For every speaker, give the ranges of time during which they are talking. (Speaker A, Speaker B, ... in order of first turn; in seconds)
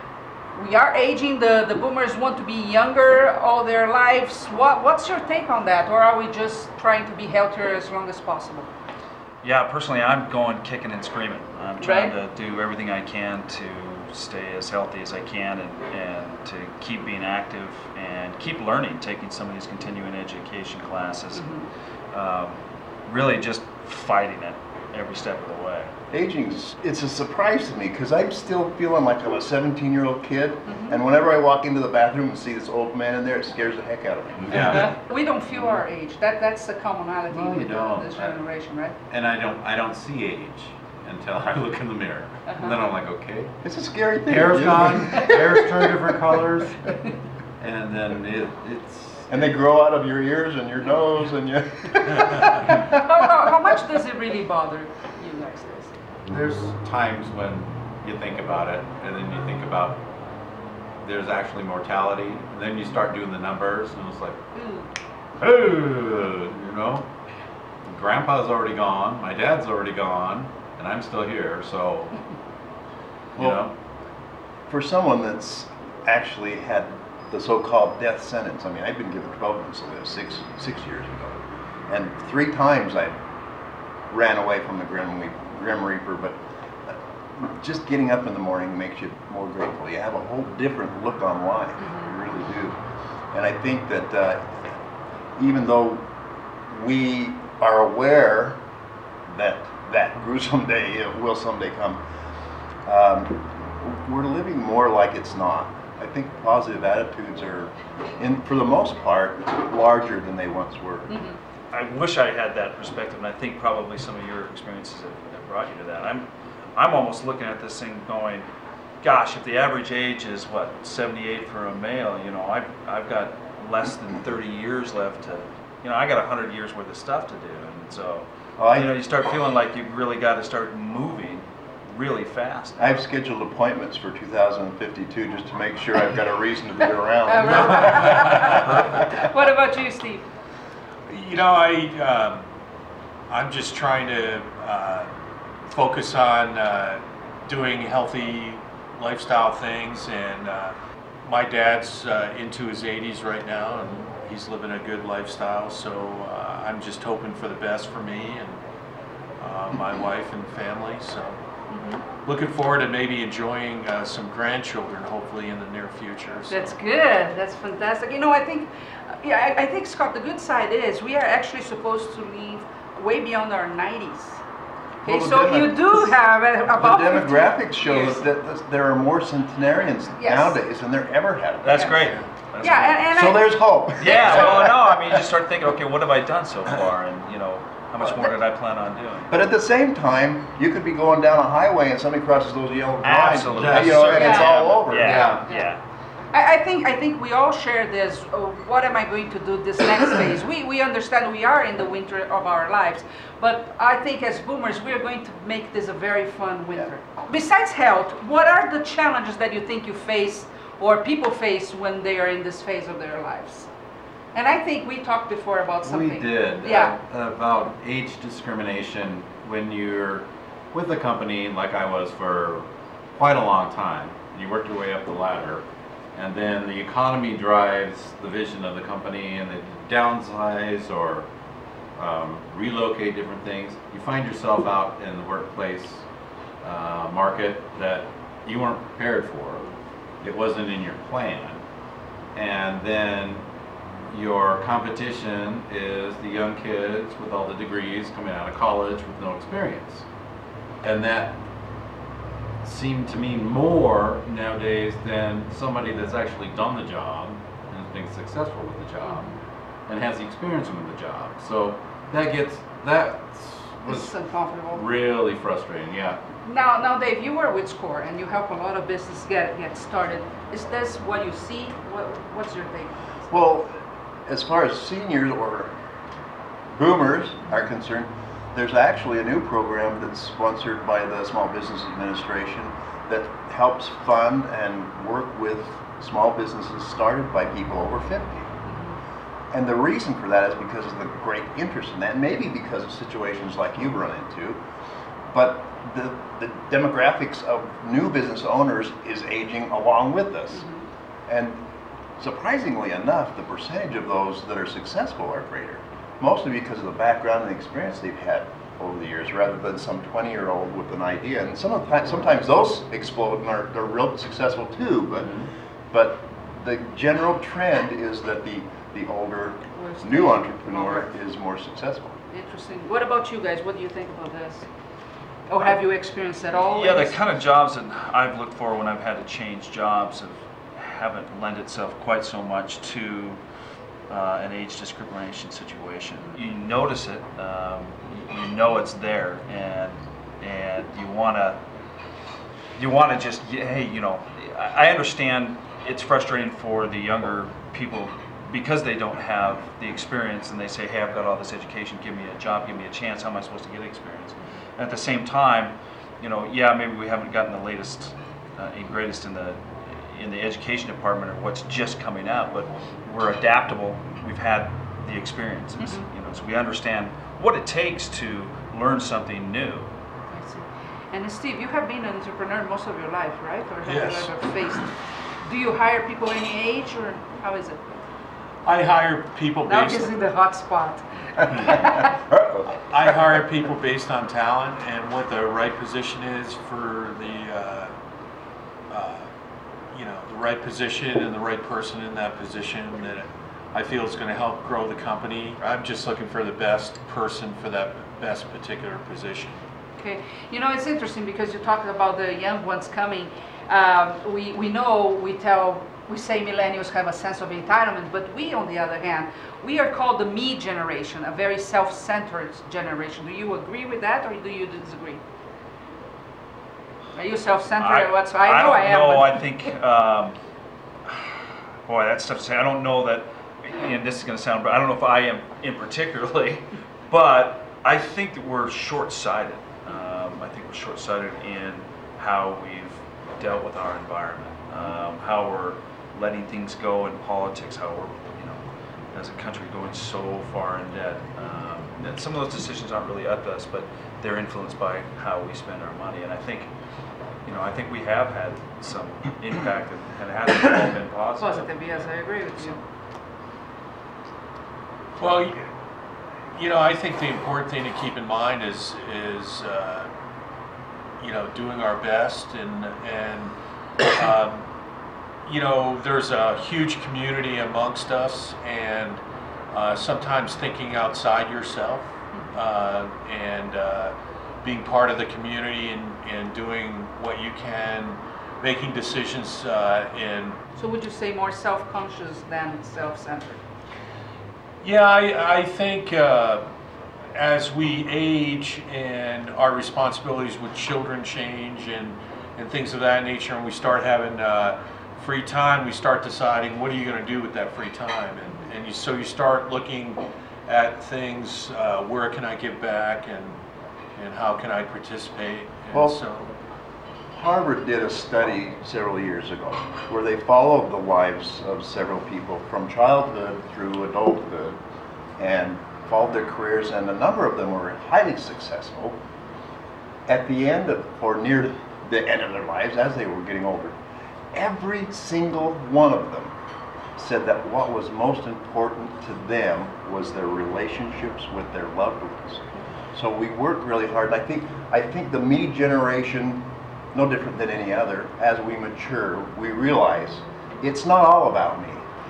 Speaker A: 0.5-8.7, 11.8-12.1, 21.3-21.7, 30.6-31.0, 34.5-39.0, 42.5-42.8, 52.8-55.9, 64.5-64.8, 91.8-92.1, 111.1-111.4, 137.3-140.2, 161.7-162.0, 166.5-174.4, 175.0-178.2, 180.2-180.6, 182.6-183.5, 184.0-184.6, 194.1-194.6, 196.3-213.7, 214.3-216.9, 259.0-259.4, 263.8-264.8, 266.4-273.1, 288.6-289.0, 300.5-300.9, 319.7-321.1, 322.3-324.7, 325.5-327.2, 365.8-366.1, 370.3-377.8, 379.7-382.1, 400.0-415.2, 417.1-419.4, 451.4-452.8, 480.8-483.6
Speaker B: 9.4-21.5, 22.1-25.9, 111.7-118.5, 119.0-133.0, 181.6-183.0, 184.0-189.3, 193.0-195.8, 326.6-333.4, 334.1-341.6, 342.8-369.9, 417.8-420.4, 421.1-438.6, 439.1-446.7, 447.4-452.1
Speaker C: 26.1-34.9, 43.6-46.2, 49.3-53.0, 73.4-73.7, 74.7-83.2, 84.1-92.8, 93.3-94.8, 95.3-96.1, 96.7-98.6, 99.2-102.0, 102.8-111.2, 128.6-129.0, 132.8-139.2, 175.0-176.1, 176.7-182.1, 183.1-185.2, 189.3-195.4, 273.3-275.7, 276.7-288.6, 289.5-294.6, 295.3-300.6, 301.3-301.6, 302.2-315.3, 315.9-322.2, 381.4-383.1, 507.3-514.8, 515.4-519.2, 520.3-524.0, 524.5-526.5, 527.1-542.0
Speaker D: 34.4-35.0, 37.3-38.4, 39.1-43.6, 44.3-46.9, 47.6-49.3, 56.3-60.0, 61.0-64.4, 65.4-67.1, 67.8-72.2, 73.3-73.7, 193.5-194.0, 195.0-195.5, 215.8-231.3, 231.9-236.0, 236.6-239.7, 240.2-241.6, 242.3-243.4, 244.1-250.1, 250.8-251.4, 252.6-259.3, 259.9-264.1, 264.7-266.2, 315.2-315.5
Speaker E: 138.1-138.8, 141.1-142.5, 143.3-145.1, 145.7-158.6, 159.4-161.4, 162.2-166.8, 373.9-374.3, 378.6-380.1, 382.8-387.9, 388.9-389.3, 389.9-399.6, 455.2-455.7, 456.5-460.1, 461.2-464.6, 465.4-480.6, 484.8-486.7, 487.3-503.6, 504.1-506.5